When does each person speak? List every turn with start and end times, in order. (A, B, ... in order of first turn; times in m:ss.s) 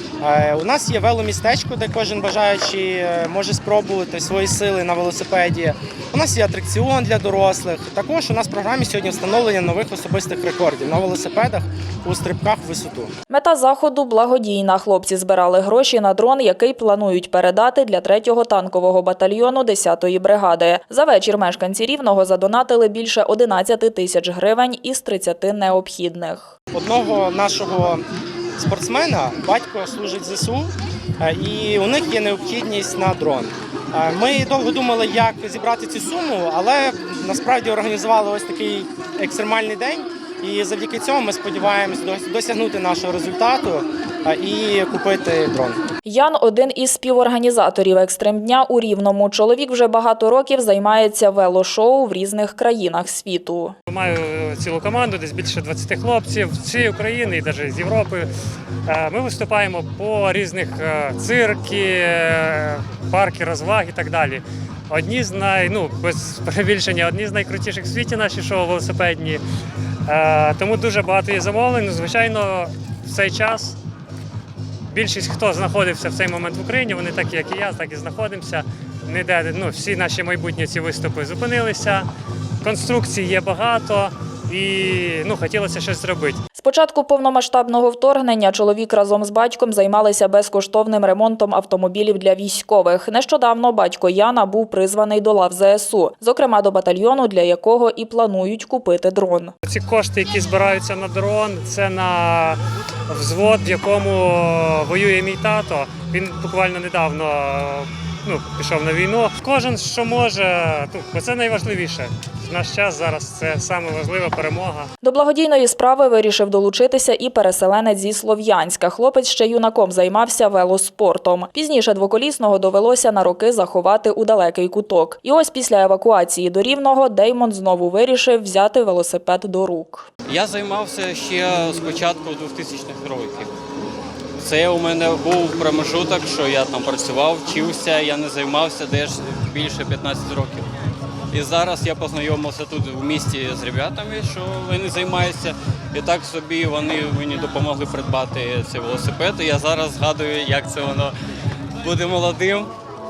0:00.2-0:13.1 A
0:13.3-0:26.5 B
0:26.7-0:28.0 A
0:28.6-0:45.8 A
0:46.0-0:53.8 B
0:53.9-0:58.3 C
0:58.9-1:09.4 C
1:10.1-1:13.8 C
1:14.9-1:22.1 C
1:22.6-1:26.4 C
1:26.6-1:39.5 B
1:39.6-1:54.9 C
1:55.0-2:10.1 B
2:10.2-2:13.5 D
2:14.4-2:20.7 D
2:21.3-2:31.1 D
2:31.8-2:32.7 D